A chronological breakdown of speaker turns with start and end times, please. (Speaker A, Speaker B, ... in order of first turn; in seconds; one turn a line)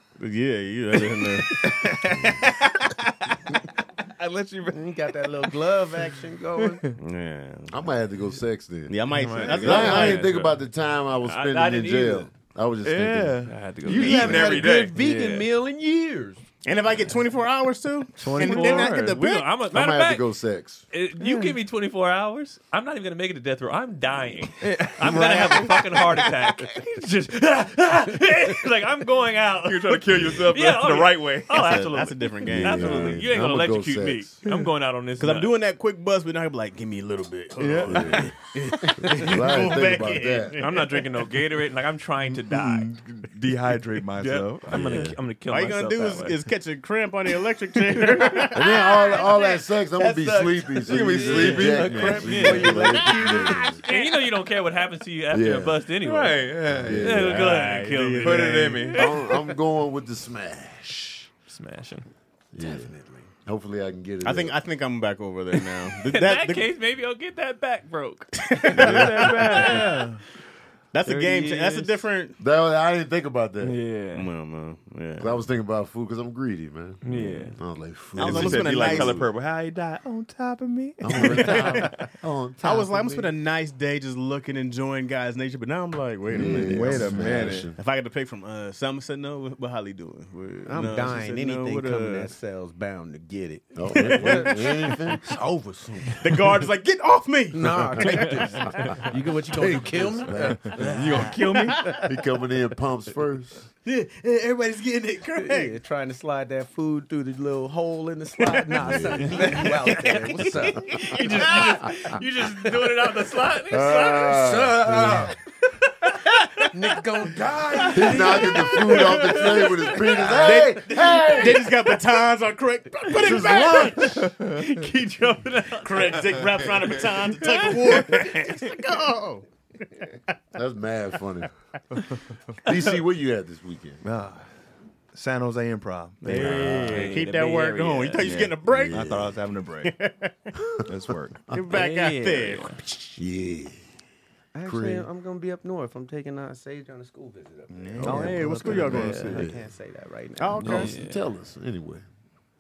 Speaker A: 0.2-2.9
Speaker B: 1.1-2.9
Speaker B: 3.5-5.6
Speaker C: 4.7-6.8
Speaker B: 6.6-7.0
Speaker A: 7.0-7.9
Speaker D: 7.7-13.4
Speaker A: 8.9-10.2
Speaker E: 9.2-10.6
Speaker C: 9.4-10.2
Speaker B: 9.5-9.9
Speaker E: 11.2-12.3
Speaker B: 12.8-15.4
Speaker E: 13.5-15.3
Speaker C: 13.9-16.4
Speaker A: 16.6-19.5
Speaker C: 18.2-18.9
Speaker E: 18.3-20.3
Speaker B: 18.4-19.1
Speaker D: 19.7-20.8
Speaker E: 20.9-35.5
Speaker B: 21.2-21.6
Speaker B: 24.6-26.7
Speaker A: 25.2-25.6
Speaker B: 29.6-31.8
Speaker A: 31.5-33.3
Speaker D: 32.5-34.4
Speaker B: 34.5-34.7
Speaker A: 35.2-41.3
Speaker B: 37.6-38.3
Speaker D: 37.9-38.3
Speaker D: 39.0-40.6
Speaker E: 40.6-42.9
Speaker B: 42.5-45.1
Speaker E: 44.2-46.4
Speaker D: 44.7-45.1
Speaker A: 45.5-48.7
Speaker C: 48.2-54.1
Speaker D: 48.5-53.8
Speaker B: 50.9-52.7
Speaker E: 52.1-59.0
Speaker D: 55.3-55.8
Speaker B: 56.0-57.4
Speaker D: 56.8-57.4
Speaker A: 57.1-59.0
Speaker B: 58.2-59.1
Speaker D: 58.9-61.3
Speaker E: 61.5-62.1
Speaker D: 62.5-62.9
Speaker C: 62.6-63.3
Speaker D: 63.4-64.6
Speaker A: 64.2-66.7
Speaker E: 66.0-70.2
Speaker A: 68.4-69.9
Speaker B: 68.8-70.2
Speaker A: 70.9-72.4
Speaker E: 71.1-72.0
Speaker D: 72.4-73.8
Speaker E: 73.6-74.3
Speaker A: 74.1-75.4
Speaker D: 75.2-79.2
Speaker E: 77.0-77.6
Speaker A: 78.2-79.3
Speaker B: 78.2-81.7
Speaker D: 81.0-83.2
Speaker A: 81.2-82.0
Speaker A: 82.6-92.3
Speaker D: 86.3-87.8
Speaker B: 86.4-87.7
Speaker C: 90.7-96.6
Speaker D: 93.8-95.3
Speaker A: 94.0-94.7
Speaker A: 96.1-98.6
Speaker C: 97.5-102.0
Speaker E: 98.1-98.6
Speaker D: 99.6-100.9
Speaker B: 100.7-102.0
Speaker D: 102.0-103.7
Speaker A: 103.8-105.8
Speaker C: 105.4-112.1
Speaker D: 108.8-109.3
Speaker E: 109.9-110.2
Speaker E: 110.9-114.9
Speaker D: 113.7-115.3
Speaker C: 114.4-115.3
Speaker E: 115.9-120.1
Speaker C: 116.5-121.2
Speaker D: 117.9-121.8
Speaker A: 120.2-124.2
Speaker D: 123.1-124.2
Speaker E: 123.2-128.6
Speaker C: 123.2-123.7
Speaker B: 124.2-124.7
Speaker A: 125.8-130.4
Speaker D: 130.6-131.5
Speaker D: 132.6-134.0
Speaker B: 134.0-134.5
Speaker B: 135.1-136.7
Speaker A: 136.2-140.4
Speaker D: 136.3-137.2
Speaker E: 136.8-138.5
Speaker B: 138.2-139.9
Speaker D: 138.6-139.3
Speaker B: 140.8-141.4
Speaker A: 141.5-142.8
Speaker E: 141.7-142.8
Speaker D: 142.9-143.8
Speaker C: 144.5-150.9
Speaker D: 144.7-145.1
Speaker B: 147.7-149.4
Speaker D: 148.0-149.6
Speaker A: 148.0-149.5
Speaker A: 150.4-151.0
Speaker D: 150.6-152.1
Speaker E: 150.7-151.2